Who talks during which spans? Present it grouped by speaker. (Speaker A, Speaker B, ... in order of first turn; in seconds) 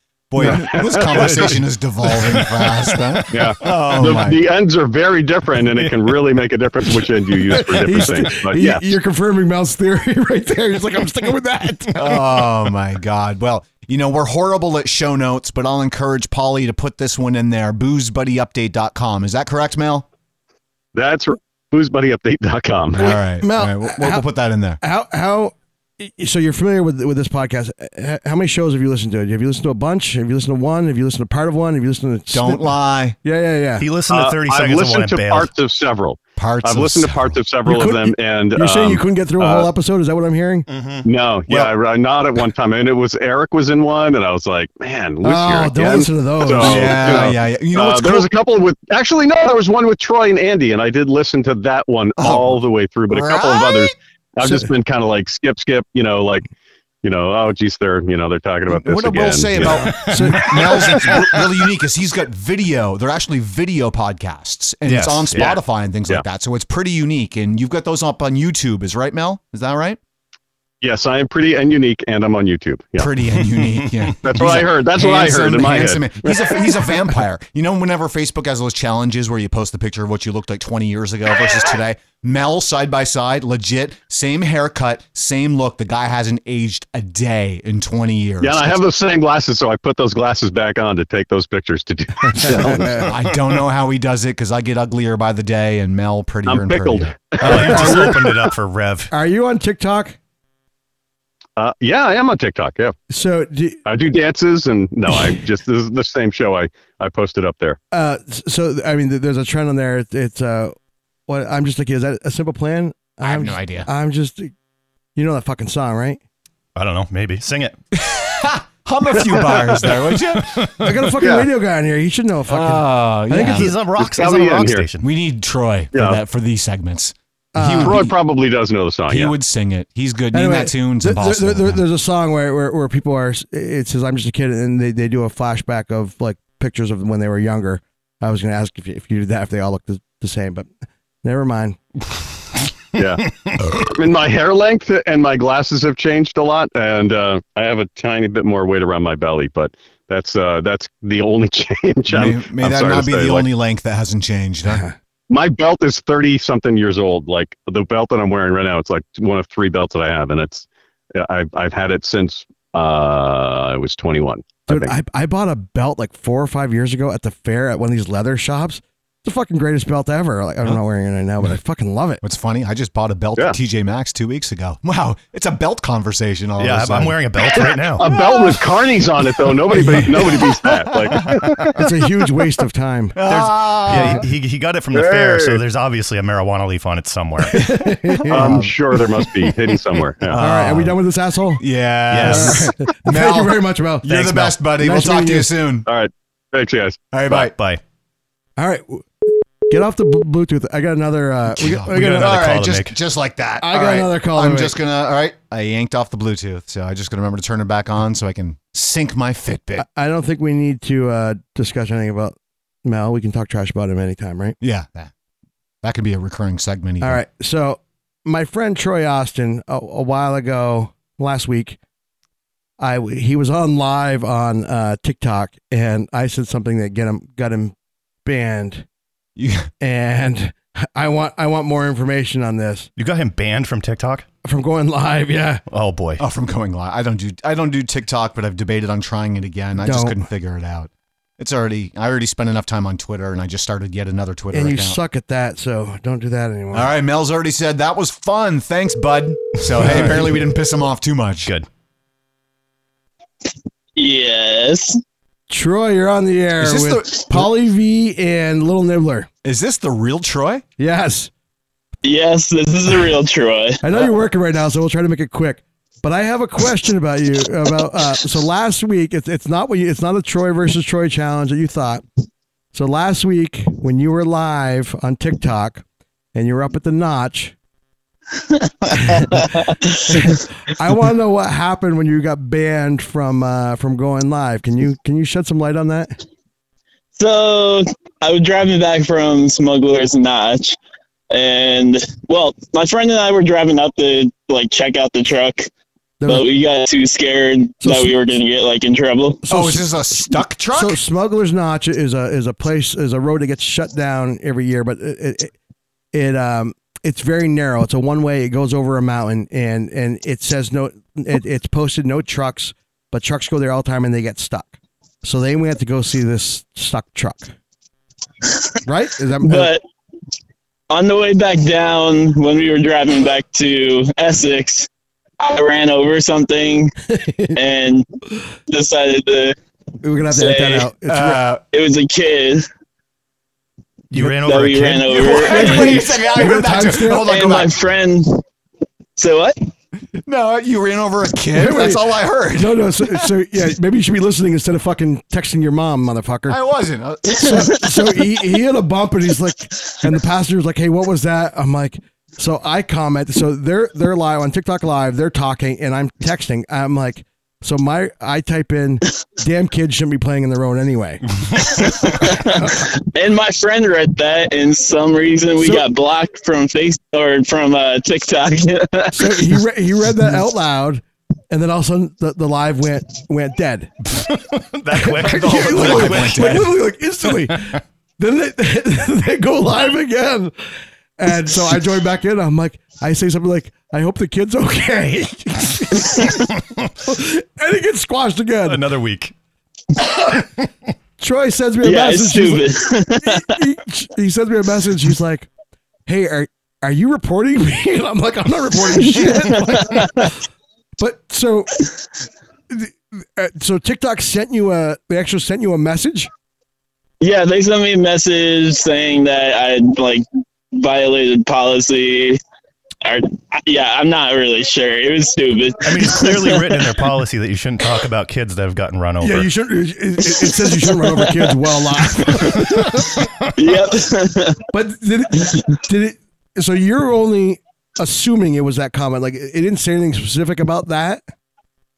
Speaker A: 0.3-4.4, 11.9-20.1, 23.0-24.8, 32.3-33.2, 36.4-37.4, 46.5-48.3, 52.2-52.6, 53.1-53.9, 58.7-70.0, 73.0-88.8, 92.9-97.9, 113.2-113.9, 118.0-120.7, 122.5-123.8, 125.0-128.1, 129.1-131.8, 152.1-154.8, 172.2-177.5, 183.2-184.3, 188.4-188.7, 190.3-191.0, 191.6-195.9, 197.1-197.5, 201.5-209.9, 214.6-215.1, 215.8-217.2, 229.4-229.7, 236.2-245.0, 246.7-251.5, 256.6-257.5, 259.4-260.6, 299.5-301.0, 331.1-331.6, 335.1-337.8, 340.3-343.3, 346.5-347.8, 375.2-376.8
Speaker B: 0.4-1.5, 3.3-8.9, 20.9-23.2, 34.1-39.7, 41.0-56.5, 57.0-60.0, 65.4-66.2, 70.8-73.1, 74.2-76.9, 88.4-93.0, 96.5-98.3, 101.6-103.0, 103.8-107.8, 119.1-119.9, 121.2-121.5, 124.0-124.9, 125.9-126.2, 127.8-129.3, 142.9-153.5, 155.3-164.9, 177.6-181.7, 184.9-185.6, 188.3-190.4, 195.9-197.1
Speaker C: 1.1-3.2, 33.8-35.5, 40.7-41.1, 60.0-61.2, 64.9-65.5, 97.4-99.1, 116.8-117.8, 120.3-120.9, 123.4-125.1, 176.6-178.1, 183.3-187.7, 192.1-192.7, 197.3-197.8, 201.9-202.9, 233.0-234.3, 235.7-236.2, 249.8-250.1, 334.1-335.4, 374.2-376.7, 388.7-389.3, 415.8-419.5
Speaker D: 7.5-12.0, 23.0-24.2, 24.8-33.9, 37.7-40.7, 45.2-47.3, 54.4-54.7, 59.8-60.5, 92.3-93.1, 97.5-98.1, 99.1-100.2, 103.1-103.8, 107.9-110.8, 111.3-114.5, 115.2-116.2, 120.8-123.7, 127.5-128.0, 130.3-140.7, 141.2-141.8, 154.7-154.9, 164.7-172.2, 181.8-183.2, 187.4-188.6, 190.4-191.6, 192.2-195.5, 198.6-199.1, 199.7-202.4, 203.6-204.8, 209.8-214.6, 217.0-221.8, 222.8-228.9, 229.8-232.9, 234.4-235.6, 239.8-240.2, 244.5-246.9, 255.5-259.3, 260.8-261.3, 263.8-272.0, 272.7-275.8, 276.3-277.6, 279.0-279.3, 280.1-286.1, 296.2-296.5, 297.8-298.2, 299.4-305.5, 306.1-317.5, 318.9-319.7, 327.1-327.6, 330.0-331.4, 335.4-337.3, 341.5-346.6, 347.4-361.2, 369.1-373.9, 374.9-380.5, 381.2-386.5, 387.1-388.8, 391.2-392.7, 393.3-395.5, 396.1-400.3, 401.0-401.8, 402.7-406.3, 419.2-423.1, 424.7-431.2
Speaker E: 254.0-255.0, 262.0-263.8, 279.2-280.4, 287.2-290.8, 291.3-295.7, 296.2-299.4, 319.4-319.8, 320.9-324.9, 325.4-326.9, 327.6-328.1, 328.7-329.6, 330.3-330.9, 331.7-332.7, 334.4-336.1, 337.2-338.4, 339.2-339.6, 361.6-369.6, 391.8-393.6, 399.0-400.3, 407.2-412.4, 413.1-416.9, 420.4-421.6, 423.6-424.6